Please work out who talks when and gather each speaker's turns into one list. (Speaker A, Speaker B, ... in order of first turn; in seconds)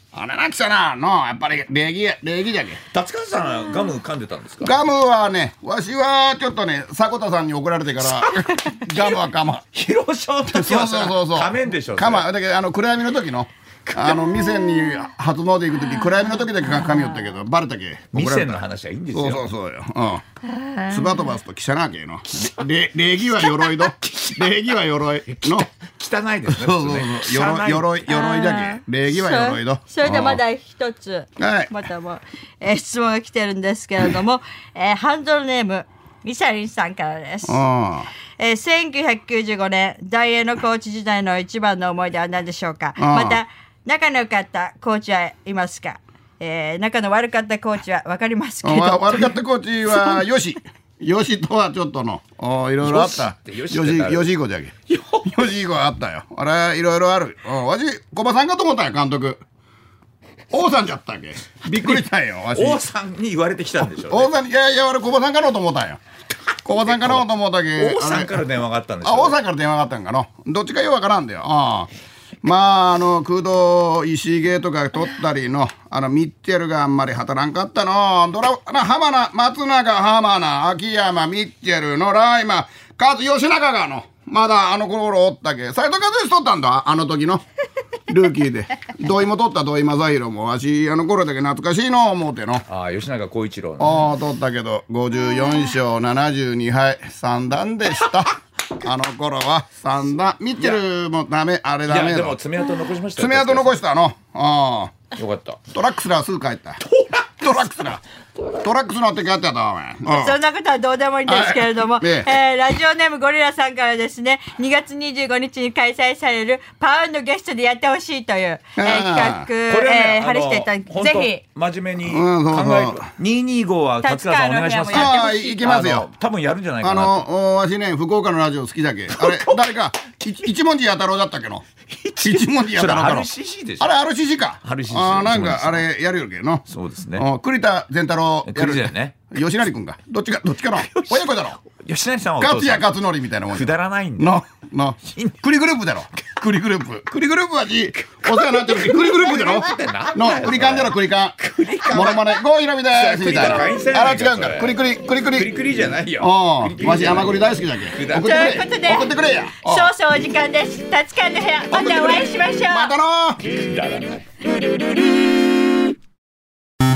Speaker A: 0.1-2.8, 4.6-9.6, 10.5-18.6, 19.1-20.2, 20.9-25.7, 26.5-30.4, 31.4-31.7, 37.5-38.1, 43.0-43.4, 48.6-54.7, 55.3-59.4, 60.5-62.8, 63.9-66.0, 66.7-68.4, 69.0-71.9, 72.4-87.4, 88.1-92.7, 93.8-102.4, 103.2-104.9, 105.7-106.8, 107.4-108.0, 108.6-110.4, 111.3-112.3, 118.8-119.5, 122.0-123.1, 124.9-126.1, 126.8-131.6, 132.2-133.3, 133.8-136.7, 137.2-141.6, 142.4-151.4, 151.9-155.5, 156.2-159.9, 161.7-163.4
Speaker B: 2.9-4.8, 8.2-9.2, 9.7-12.3, 13.9-14.5, 18.1-19.5, 22.3-22.6, 23.3-24.5, 25.3-27.9, 52.8-54.3, 54.9-55.3, 61.8-64.3, 66.7-69.4, 92.7-94.0, 101.9-103.8, 105.2-105.6, 119.7-127.3, 129.2-129.6, 132.0-133.9, 134.6-135.9, 136.7-137.2, 138.5-139.2, 140.7-142.9, 143.5-144.3, 148.1-152.4, 152.9-158.7, 163.5-164.3
Speaker C: 20.5-21.0, 28.1-37.6, 38.4-49.4, 110.1-121.4, 124.0-125.7, 158.1-162.9